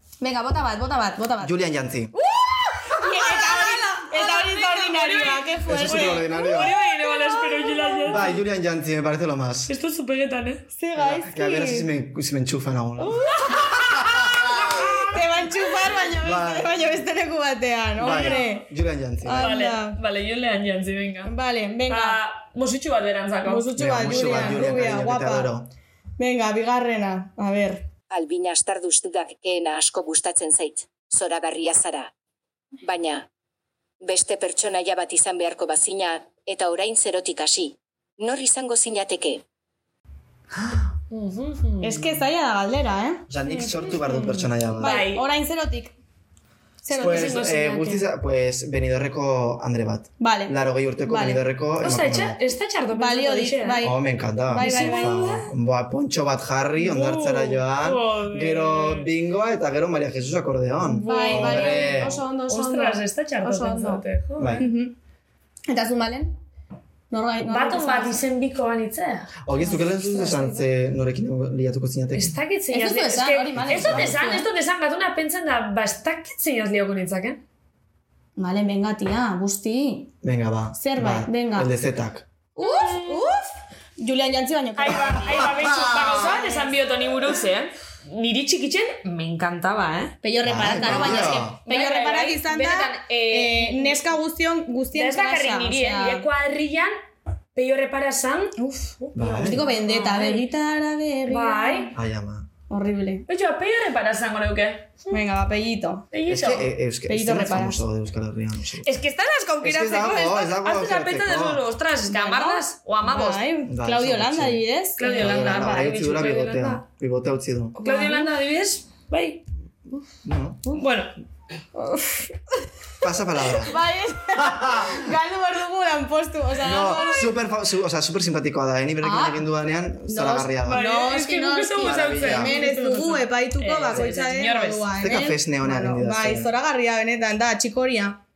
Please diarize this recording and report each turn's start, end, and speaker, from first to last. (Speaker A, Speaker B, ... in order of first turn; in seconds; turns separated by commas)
Speaker A: 0.2-1.5, Speaker B: 1.4-2.1, Speaker A: 2.1-8.3, Speaker C: 4.0-8.3, Speaker B: 5.7-6.8, Speaker B: 8.1-9.7, Speaker C: 9.7-10.6, Speaker A: 10.8-11.9, Speaker B: 11.0-15.1, Speaker A: 13.0-18.7, Speaker B: 16.2-16.8, Speaker B: 18.0-19.5, Speaker C: 18.0-18.5, Speaker A: 19.2-20.0, Speaker C: 19.4-21.3, Speaker A: 21.2-22.2, Speaker C: 21.9-23.7, Speaker A: 23.5-25.5, Speaker B: 23.8-25.7, Speaker A: 26.2-27.9, Speaker D: 28.1-32.1, Speaker D: 32.8-33.3, Speaker D: 34.0-39.4, Speaker B: 40.5-40.9, Speaker C: 41.1-42.0, Speaker A: 41.8-43.2, Speaker B: 43.3-45.0, Speaker C: 43.5-45.3, Speaker A: 44.8-45.9, Speaker A: 46.8-47.4, Speaker C: 46.9-48.0, Speaker B: 47.0-52.4, Speaker A: 50.2-51.4, Speaker C: 51.8-53.9, Speaker A: 52.9-55.4, Speaker B: 53.8-62.2, Speaker C: 54.6-55.5, Speaker C: 56.8-59.1, Speaker C: 60.8-64.7, Speaker A: 61.0-64.0, Speaker B: 64.4-64.7, Speaker A: 64.6-65.0, Speaker A: 65.7-66.4, Speaker A: 67.1-68.2, Speaker C: 67.5-70.6, Speaker B: 69.4-72.4, Speaker C: 72.2-77.4, Speaker A: 72.7-74.5, Speaker B: 73.6-74.2, Speaker A: 78.4-80.1, Speaker B: 80.2-82.3, Speaker A: 80.8-81.7, Speaker A: 82.6-83.5, Speaker C: 82.6-83.3, Speaker A: 84.0-86.8, Speaker C: 84.8-90.2, Speaker B: 85.6-86.0, Speaker A: 90.2-96.2, Speaker B: 90.4-91.6, Speaker C: 90.8-94.1, Speaker C: 94.9-96.9, Speaker C: 97.5-100.5, Speaker A: 98.6-102.0, Speaker B: 99.2-99.7, Speaker C: 101.3-101.9, Speaker B: 102.0-102.5, Speaker A: 102.7-103.3, Speaker C: 103.3-105.2, Speaker A: 105.1-106.1, Speaker C: 106.1-106.7, Speaker B: 106.3-109.0, Speaker A: 107.1-107.8, Speaker C: 108.8-113.5, Speaker B: 109.6-111.7, Speaker A: 112.0-115.6, Speaker B: 113.7-117.8, Speaker C: 115.0-116.8, Speaker C: 117.8-119.4, Speaker A: 117.8-118.3, Speaker B: 119.9-120.8, Speaker C: 120.7-121.2, Speaker A: 121.8-122.7, Speaker B: 123.0-123.8, Speaker A: 123.6-127.3, Speaker B: 124.4-125.0, Speaker B: 126.6-130.9, Speaker A: 129.0-129.4, Speaker A: 130.1-138.2, Speaker C: 130.7-134.9, Speaker B: 131.8-132.6, Speaker B: 135.0-136.5